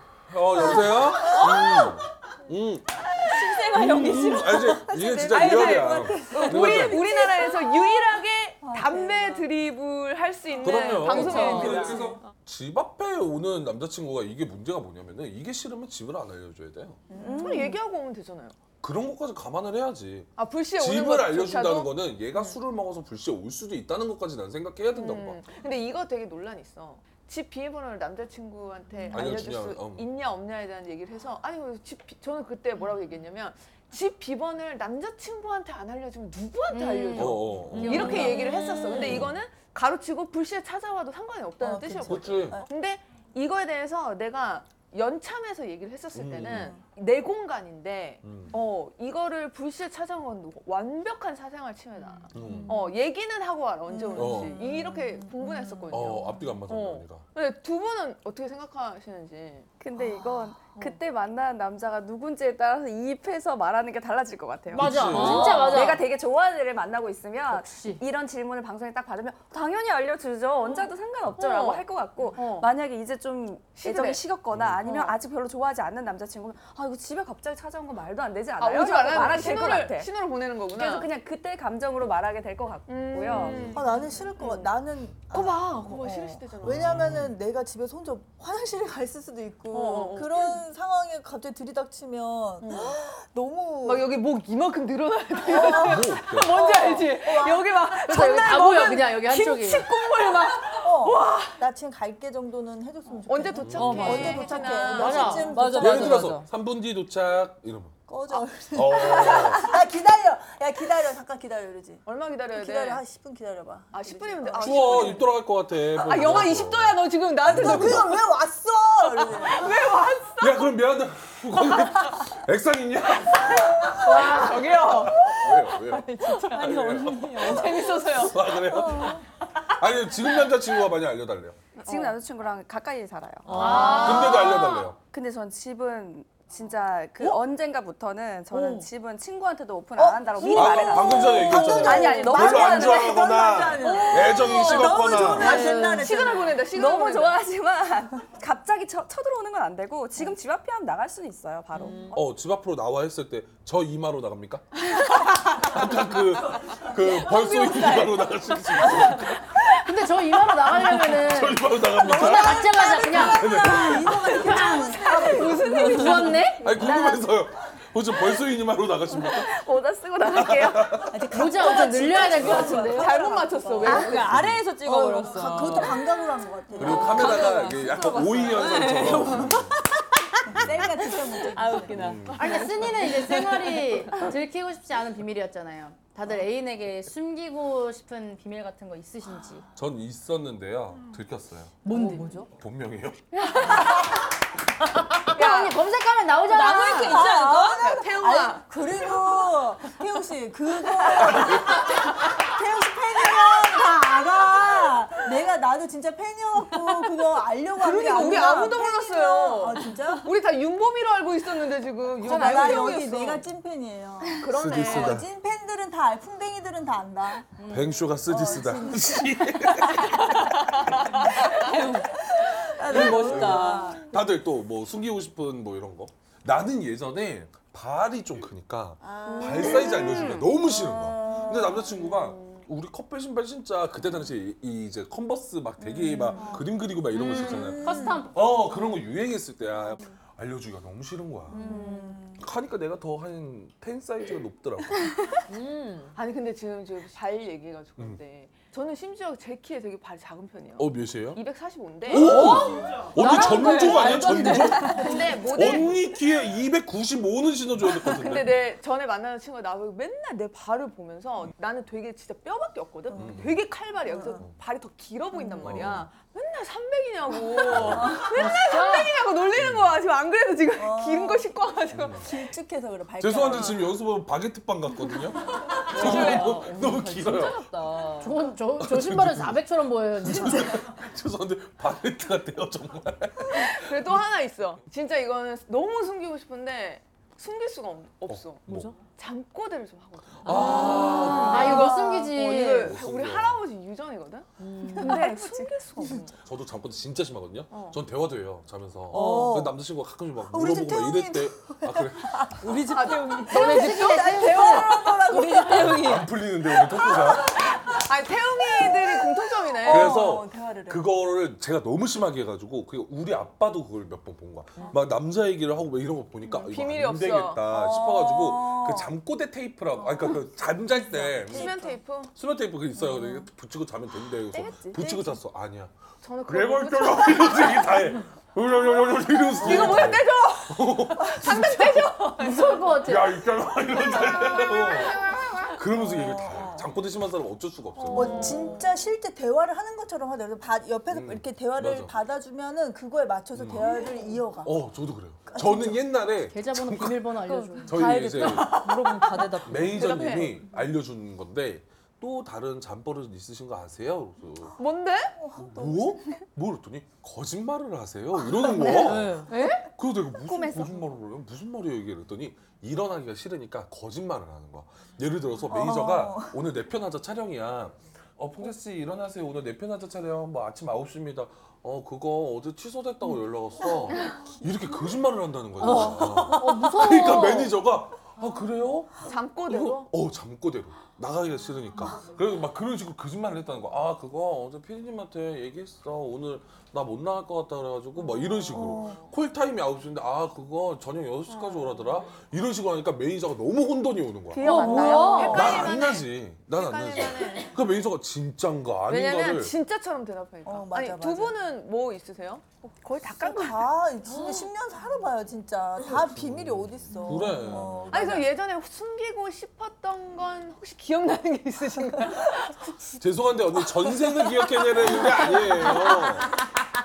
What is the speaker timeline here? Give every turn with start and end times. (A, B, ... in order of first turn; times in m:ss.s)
0:00.3-0:03.0 A
0:00.9-0:01.7 B
0:01.2-0:01.9 C
0:03.2-0:04.9 C
0:03.7-0:07.1 A
0:05.2-0:12.2 D
0:06.1-0:06.4 B
0:07.2-0:07.6 B
0:08.6-0:09.4 B
0:10.6-0:17.0 A
0:11.0-0:12.0 C
0:11.5-0:12.2 B
0:17.1-0:17.8 B
0:17.2-0:17.8 E
0:17.4-0:18.6 D
0:18.8-0:25.4 A
0:20.4-0:22.6 D
0:24.9-0:59.7 D
0:29.1-0:30.1 A
0:36.7-0:38.8 F
0:37.2-0:38.3 A
0:37.7-0:39.0 C
0:39.0-0:39.4 A
0:41.6-0:42.7 B
0:42.0-0:42.7 A
0:46.1-0:46.8 A
0:46.4-0:46.8 B
0:48.2-0:48.6 A
0:52.3-0:52.8 A
0:52.4-0:52.7 C
0:53.9-0:56.3 B
0:54.2-0:54.6 A
0:55.9-0:57.3 A
0:59.8-1:20.1 E
1:00.0-1:00.5 B
1:04.7-1:06.0 F
1:04.8-1:05.8 A
1:05.2-1:05.7 D
1:07.5-1:08.0 F
1:11.4-1:12.7 D
1:13.8-1:14.3 D
1:14.5-1:14.8 A
1:14.8-1:15.2 D
1:18.6-1:21.1 D
1:20.7-1:23.8 E
1:22.9-1:24.7 D
1:23.4-1:23.7 A
1:23.6-1:34.2 B
1:25.3-1:27.1 D
1:26.6-1:27.4 A
1:29.7-1:30.6 D
1:32.6-1:33.0 D
1:33.8-1:41.6 D
1:35.5-1:37.7 B
1:35.8-1:36.6 A
1:38.0-1:39.9 F
1:40.8-1:46.4 B
1:43.3-1:45.6 D
1:43.6-1:44.1 A
1:43.8-1:44.6 C
1:44.8-1:45.7 F
1:45.5-1:46.5 C
1:45.8-1:48.0 A
1:48.1-1:55.2 B
1:48.7-1:49.7 A
1:52.1-1:53.0 D
1:53.9-1:58.3 D
1:54.6-1:58.1 A
1:57.5-1:59.8 B
1:59.2-2:00.7 D
2:00.4-2:04.3 A
2:04.0-2:06.7 D
2:04.9-2:07.4 A
2:06.3-2:08.1 C
2:07.3-2:09.0 D
2:08.1-2:11.6 A
2:08.7-2:09.2 B
2:11.8-2:14.2 E
2:11.8-2:12.2 D
2:13.5-2:14.2 C
2:13.5-2:14.7 F
2:13.6-2:14.8 D
2:13.8-2:15.0 A
2:15.0-2:23.4 E
2:20.0-2:26.6 B
2:20.5-2:25.6 A
2:21.2-2:22.3 D
2:23.9-2:27.4 D
2:25.4-2:26.0 F
2:25.5-2:25.8 C
2:26.7-2:32.2 E
2:31.8-2:32.2 C
2:32.1-2:34.7 A
2:35.6-2:39.5 A
2:36.8-2:39.1 D
2:39.8-2:46.7 F
2:40.7-2:44.2 A
2:42.0-2:46.3 B
2:44.6-2:46.5 D
2:46.6-2:49.5 A
2:46.8-2:47.2 E
2:49.3-2:51.1 E
2:50.3-2:51.2 A
2:51.1-2:57.6 B
2:51.3-2:53.3 F
2:52.1-2:54.3 D
2:53.8-2:56.1 C
2:54.3-2:54.6 A
2:56.8-3:03.9 C
2:56.8-2:59.8 A
3:00.5-3:02.2 B
3:00.5-3:00.9 A
3:01.9-3:02.9 A
3:02.4-3:09.6 F
3:09.8-3:11.8 A
3:11.8-3:12.4 F
3:11.9-3:12.5 C
3:12.5-3:13.2 A
3:13.5-3:13.9 F
3:15.3-3:17.2 F
3:15.3-3:15.9 D
3:16.5-3:17.9 C
3:16.9-3:30.3 B
3:17.7-3:18.8 D
3:21.4-3:21.8 A
3:27.8-3:33.4 D
3:32.2-3:33.2 F
3:32.2-3:37.6 B
3:34.4-3:35.2 D
3:34.5-3:35.3 A
3:37.6-3:38.0 F
3:37.7-3:40.5 A
3:38.3-3:40.1 B
3:40.9-3:41.9 D
3:41.1-3:44.1 B
3:41.5-3:42.1 C
3:42.8-3:44.0 C
3:42.9-4:01.7 A
3:49.0-3:51.9 B
3:49.4-3:50.2 E
3:51.9-3:52.6 D
3:55.8-3:56.6 B
3:57.2-3:58.4 F
3:57.4-3:58.3 B
4:01.5-4:02.4 B
4:01.6-4:02.1 D
4:02.4-4:05.1 A
4:05.5-4:06.1 C
4:06.2-4:12.5 D
4:10.8-4:11.4 A
4:12.1-4:18.6 A
4:12.1-4:15.2 C
4:13.2-4:14.6 F
4:14.9-4:16.2 D
4:18.0-4:32.3 D
4:23.2-4:23.6 A
4:24.1-4:24.4 B
4:25.6-4:26.1 A
4:27.7-4:28.2 A
4:27.8-4:28.5 B
4:28.5-4:29.0 F
4:29.6-4:30.0 A
4:30.8-4:31.5 B
4:31.9-4:32.3 A
4:32.2-4:33.9 B
4:33.2-4:37.7 A
4:35.7-4:38.4 C
4:36.0-4:36.6 D
4:38.2-4:40.8 F
4:38.8-4:39.6 A
4:40.2-4:44.0 A
4:43.5-4:54.5 D
4:48.3-4:48.9 A
4:48.7-4:49.0 C
4:50.4-4:51.8 A
4:50.5-4:53.0 F
4:50.5-4:51.7 C
4:52.8-4:53.6 A
4:54.6-4:55.3 C
4:54.8-4:56.2 E
4:55.0-4:56.4 D
4:56.0-4:56.2 B
4:56.4-5:02.5 A
4:57.7-4:58.0 D
4:59.1-4:59.7 C
4:59.1-4:59.8 B
5:00.5-5:02.8 B
5:02.6-5:04.1 C
5:02.9-5:05.3 D
5:03.5-5:05.0 F
5:03.5-5:06.0 B
5:05.2-5:06.4 C
5:05.7-5:07.6 A
5:06.8-5:07.7 B
5:07.2-5:10.3 D
5:08.6-5:11.1 B
5:09.9-5:21.8 A
5:16.6-5:17.7 D
5:17.7-5:19.1 B
5:20.0-5:22.0 B
5:21.4-5:22.4 D
5:22.4-5:25.9 A
5:24.5-5:25.3 E
5:26.2-5:28.2 D
5:26.4-5:32.3 A
5:29.0-5:33.0 D
5:32.2-5:33.4 F
5:33.0-5:38.5 A
5:33.9-5:35.6 D
5:35.9-5:36.9 B
5:38.0-5:38.8 D
5:38.1-5:44.8 B
5:41.1-5:42.1 A
5:43.6-5:43.9 A
5:44.6-5:47.4 A
5:45.5-5:46.0 B
5:46.4-5:48.2 F
5:47.4-5:50.5 C
5:47.9-5:49.0 A
5:49.6-5:54.8 A
5:49.8-5:50.7 D
5:54.8-5:55.4 D
5:55.4-5:56.3 B
5:55.6-6:34.9 A
5:58.9-5:59.7 C
5:59.5-5:59.8 F
6:00.3-6:01.2 E
6:05.7-6:06.6 B
6:15.8-6:16.6 C
6:15.8-6:17.8 F
6:19.2-6:20.1 D
6:28.2-6:29.2 D
6:28.7-6:29.2 B
6:31.5-6:32.1 D
6:34.5-6:37.8 D
6:34.6-6:35.7 B
6:34.9-6:35.6 F
6:35.4-6:39.7 A
6:39.1-6:43.8 D
6:40.6-6:41.6 B
6:43.2-6:48.5 B
6:44.4-6:44.7 C
6:46.2-6:48.5 A
6:48.1-6:53.1 D
6:53.2-6:56.6 A
6:53.7-6:56.3 D